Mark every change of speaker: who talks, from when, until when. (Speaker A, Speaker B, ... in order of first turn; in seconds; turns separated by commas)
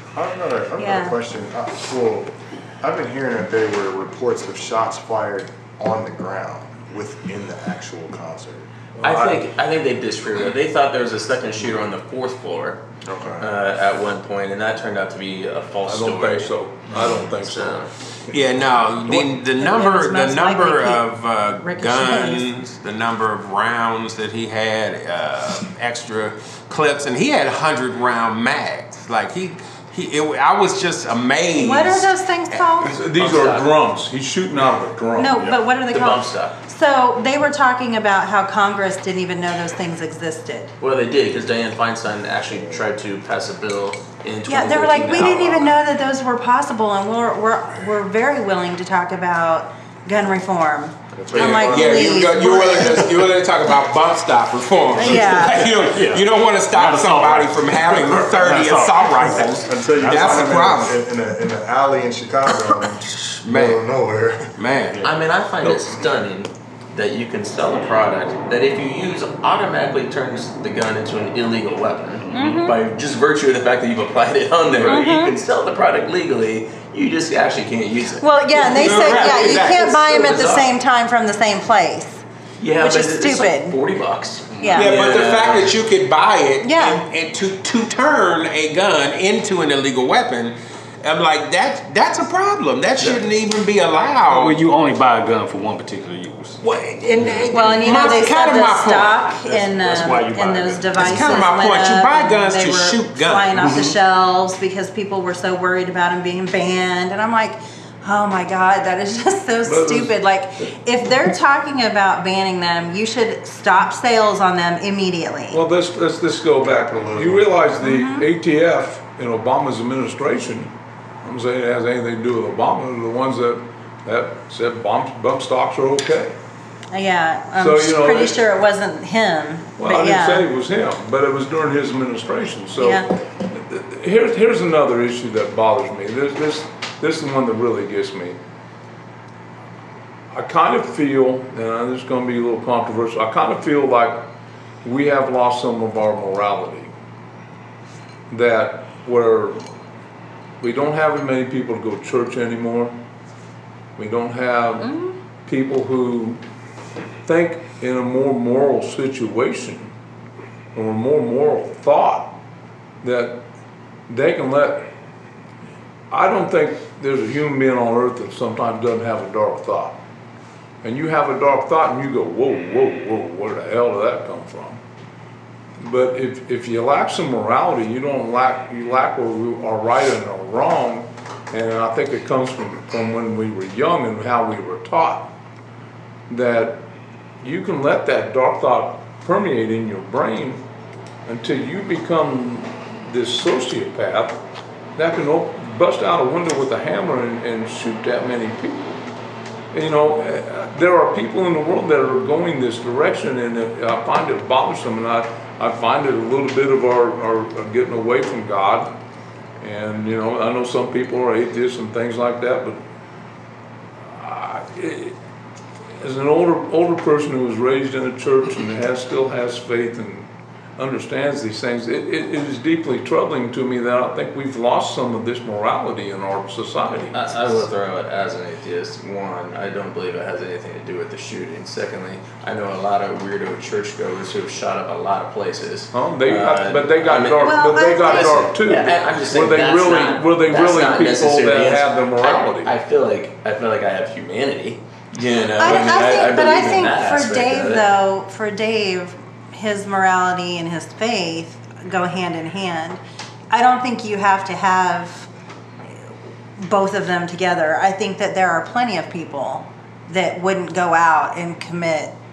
Speaker A: 0.1-8.7, Speaker B: 0.8-1.2, Speaker C: 9.0-9.4, Speaker D: 9.0-12.8, Speaker A: 13.1-13.5, Speaker D: 13.4-17.9, Speaker C: 15.8-17.8, Speaker E: 18.3-32.6, Speaker C: 19.1-19.4, Speaker B: 19.5-21.1, Speaker B: 21.6-22.5, Speaker B: 31.6-33.0, Speaker C: 32.8-35.4, Speaker D: 33.1-33.7, Speaker B: 35.2-40.7, Speaker D: 35.9-36.6, Speaker D: 40.8-45.8, Speaker B: 44.5-53.1, Speaker A: 51.1-52.5, Speaker E: 51.3-61.0, Speaker B: 55.0-55.7, Speaker F: 55.1-60.4, Speaker A: 59.3-64.5, Speaker E: 63.0-63.8, Speaker E: 64.6-65.1, Speaker F: 64.9-65.2, Speaker D: 65.0-80.7, Speaker F: 72.2-72.7, Speaker B: 72.3-72.8, Speaker B: 74.8-75.3, Speaker B: 78.2-82.2, Speaker E: 78.5-79.9, Speaker D: 82.6-85.8, Speaker B: 82.8-83.8, Speaker F: 84.5-84.9, Speaker B: 84.6-85.0, Speaker E: 84.7-94.6, Speaker B: 86.6-87.0, Speaker F: 94.3-96.6, Speaker E: 96.6-99.3, Speaker F: 97.2-98.6, Speaker B: 97.5-115.6, Speaker F: 99.3-101.4, Speaker E: 101.0-103.9, Speaker F: 103.6-104.0, Speaker C: 109.7-110.2, Speaker C: 115.5-120.7, Speaker A: 116.9-117.4, Speaker B: 117.8-118.3, Speaker C: 121.2-126.4, Speaker B: 126.9-130.5, Speaker C: 127.6-128.4, Speaker C: 129.8-138.4, Speaker B: 132.8-133.1, Speaker C: 140.3-144.3, Speaker C: 144.8-146.9, Speaker C: 148.3-149.6, Speaker C: 150.6-153.0, Speaker C: 154.0-154.9, Speaker B: 154.8-155.1, Speaker C: 155.4-156.4, Speaker C: 157.2-159.9, Speaker C: 160.8-162.3, Speaker C: 163.0-163.4, Speaker C: 164.1-164.9, Speaker C: 166.1-170.0, Speaker C: 170.8-174.8, Speaker C: 175.8-185.3, Speaker C: 186.3-186.8, Speaker C: 187.4-190.6, Speaker C: 191.3-194.4, Speaker C: 195.0-199.0, Speaker C: 199.7-208.9, Speaker C: 209.6-212.8, Speaker C: 214.1-215.2, Speaker C: 216.0-227.3, Speaker D: 227.1-247.8, Speaker C: 235.9-242.8, Speaker B: 237.4-238.4, Speaker B: 245.6-255.3, Speaker B: 256.6-262.1